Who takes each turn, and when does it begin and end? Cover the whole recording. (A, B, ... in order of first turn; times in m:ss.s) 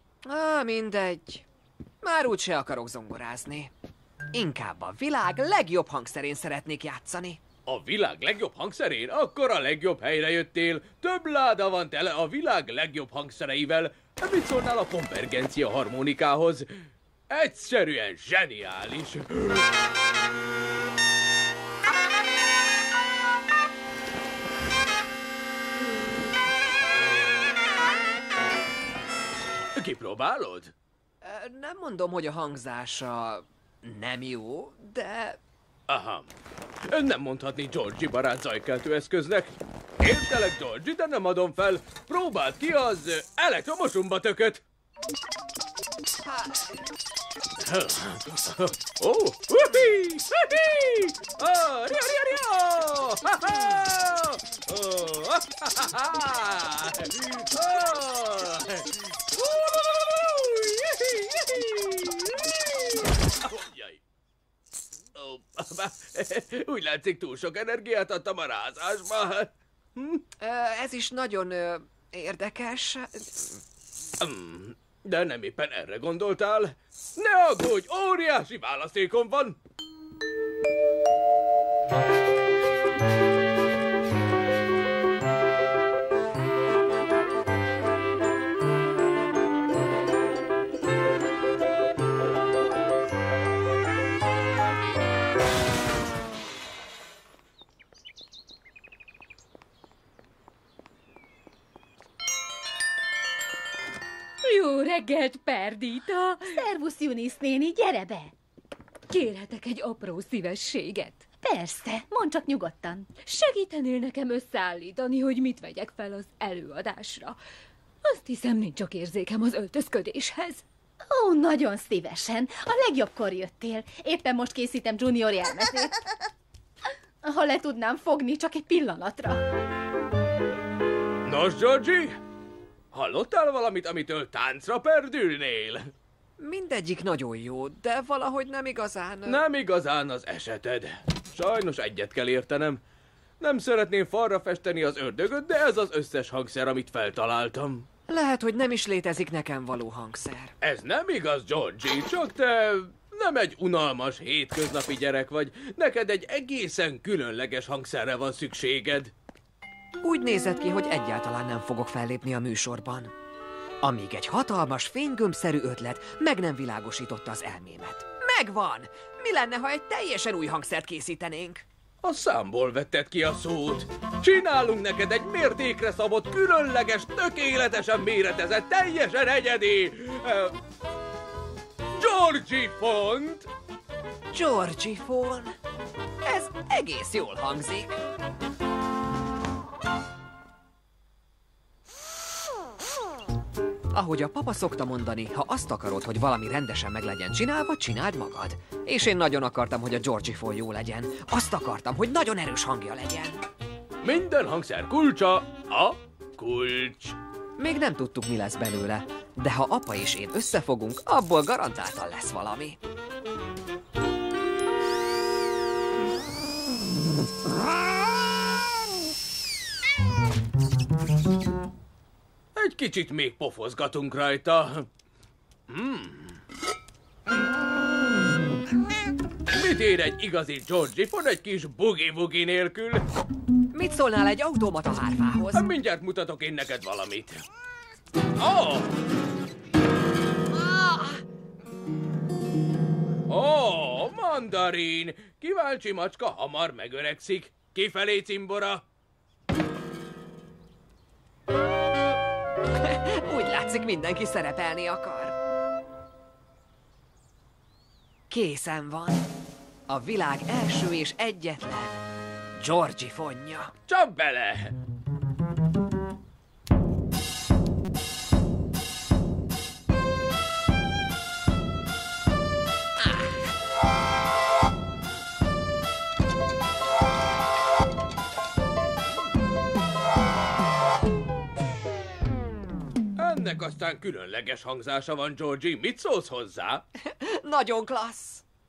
0:00.2-0:01.5 A
0:02.0-0:03.7 A
0:04.3-0:07.4 A
0:07.7-0:16.7 B
0:17.3-0:19.7 B
0:29.8-0:30.7 B
0:31.2-0:35.4 A
0:35.9-0:36.3 B
0:36.9-0:44.6 B
0:46.2-0:46.8 A
0:47.6-1:02.6 B
1:03.4-1:04.0 B
1:05.2-1:10.2 B
1:10.4-1:13.6 A
1:14.2-1:19.6 B
1:44.4-1:46.6 C
1:46.5-1:48.3 D
1:49.1-1:51.2 C
1:51.4-1:53.1 D
1:53.3-1:57.4 C
1:58.0-2:00.6 C
2:01.0-2:06.0 D
2:07.2-2:09.4 D
2:11.2-2:12.2 B
2:12.9-2:15.9 B
2:16.4-2:19.4 A
2:19.3-2:22.8 B
2:23.4-2:27.9 B
2:28.1-2:30.5 A
2:30.6-2:39.1 B
2:40.0-2:43.1 A
2:43.8-2:51.6 A
2:52.0-3:00.6 B
3:02.0-3:03.5 B
3:04.3-3:05.6 A
3:06.2-3:08.0 A
3:13.9-3:23.4 A
3:24.0-3:27.2 B
3:27.6-3:32.8 A
3:42.6-3:44.9 B
3:45.7-3:46.4 B
3:49.5-3:53.0 B
3:53.7-3:55.7 A
3:55.5-3:57.4 B
3:58.4-3:59.0 B
4:00.5-4:01.2 A
4:03.3-4:08.8 B
4:12.8-4:15.4 A
4:18.3-4:19.3 A
4:19.9-4:22.0 A
4:22.6-4:23.7 A
4:23.9-4:24.7 B
4:33.0-4:33.4 A
4:43.2-4:46.8 B
4:47.0-4:48.4 A